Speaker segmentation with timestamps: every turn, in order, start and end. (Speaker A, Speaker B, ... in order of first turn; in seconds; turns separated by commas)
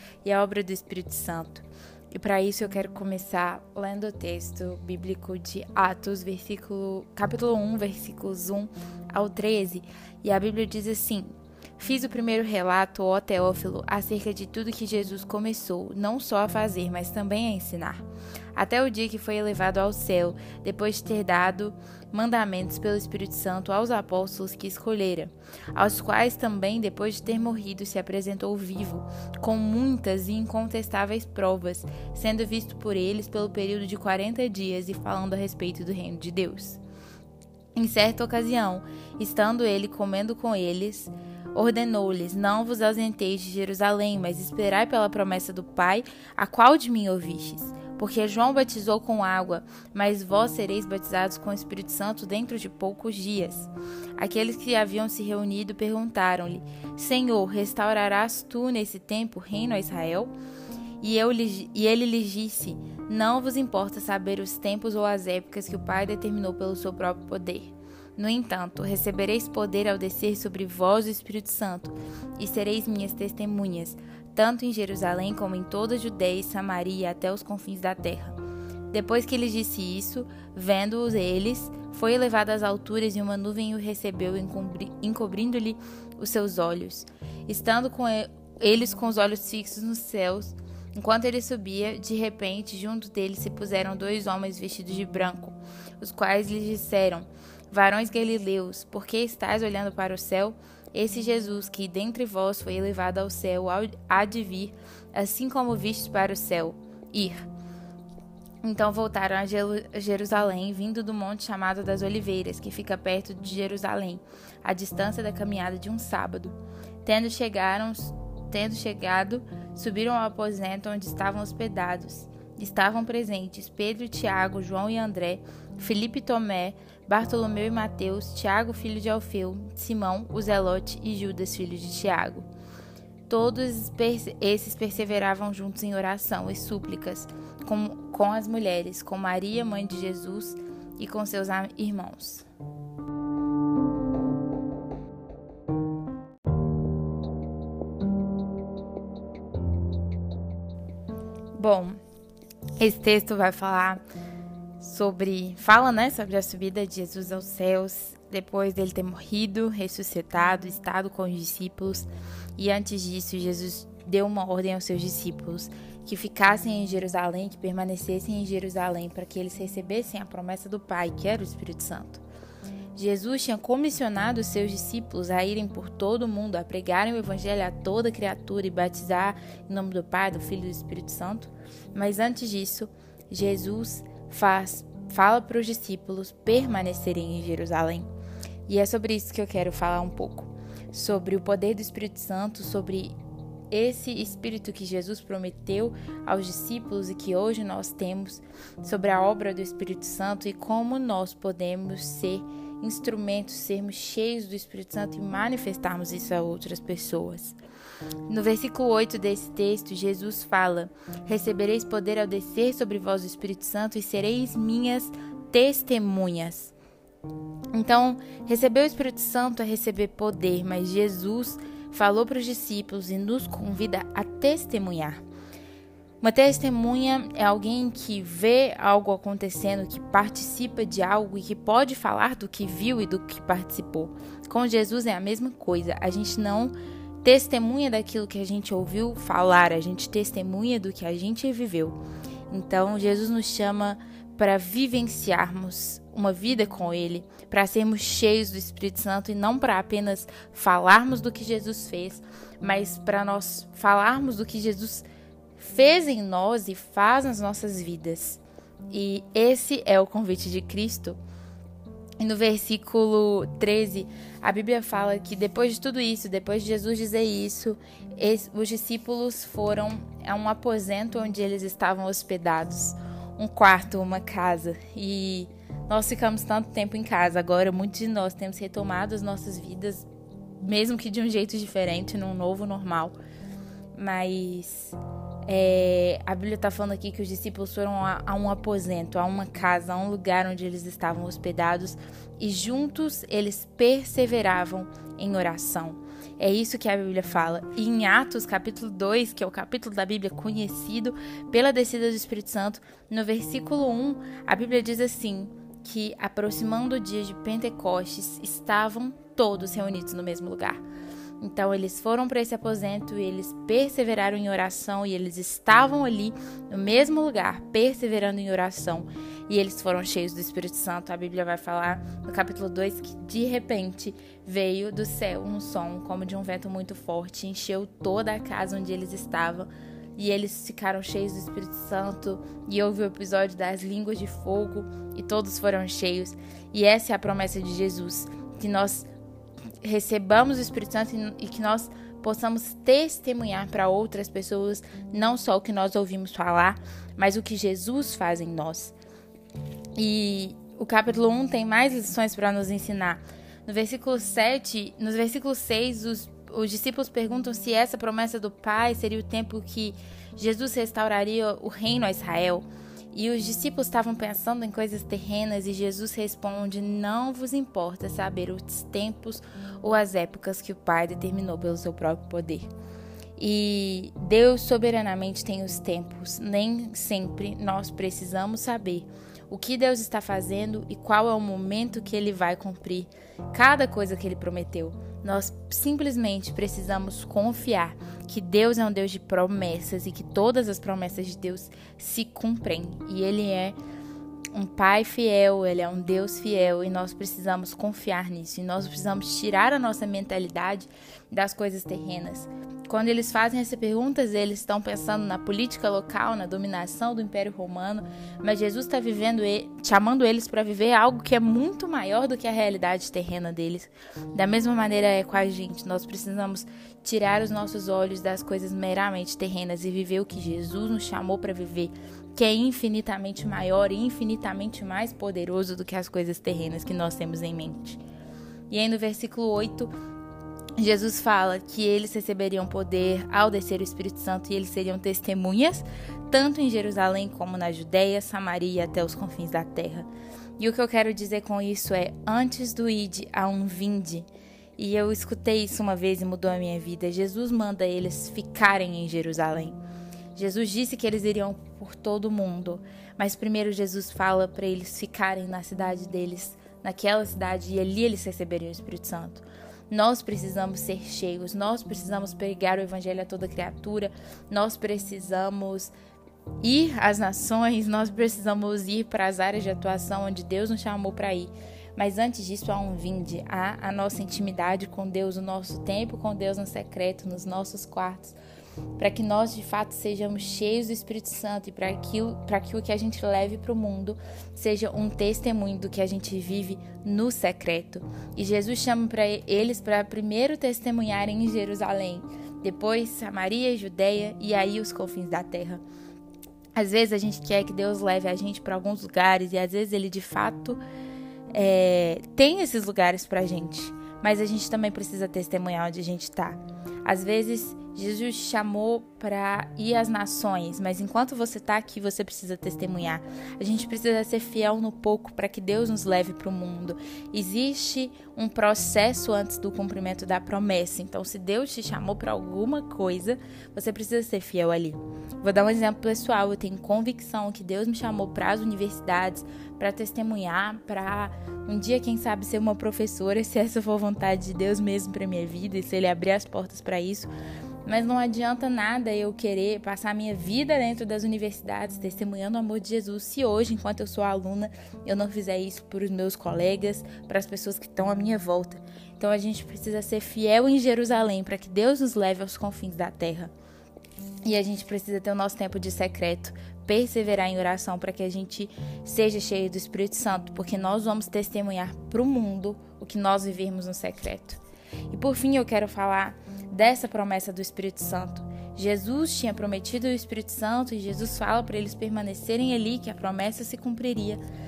Speaker A: 0.2-18.0, Speaker A: 18.6-36.8, Speaker A: 37.8-60.3, Speaker A: 61.0-78.4, Speaker A: 78.9-107.5, Speaker A: 108.6-132.5, Speaker A: 133.3-142.5, Speaker A: 151.6-152.0, Speaker A: 152.8-154.0, Speaker A: 154.8-172.2, Speaker A: 172.9-188.1, Speaker A: 188.7-193.2, Speaker A: 193.7-207.6, Speaker A: 208.3-216.7, Speaker A: 217.7-225.2, Speaker A: 226.2-242.0, Speaker A: 242.5-255.1, Speaker A: 255.6-261.2, Speaker A: 262.2-280.1, Speaker A: 280.6-283.1, Speaker A: 283.9-310.8, Speaker A: 311.4-339.1, Speaker A: 339.8-348.9, Speaker A: 350.0-372.7, Speaker A: 373.4-393.8, Speaker A: 394.5-428.0, Speaker A: 428.7-429.9, Speaker A: 430.8-449.8, Speaker A: 450.4-465.9, Speaker A: 466.6-478.4, Speaker A: 479.0-495.8, Speaker A: 496.8-500.8, Speaker A: 501.5-537.3, Speaker A: 537.9-553.5, Speaker A: 554.5-574.4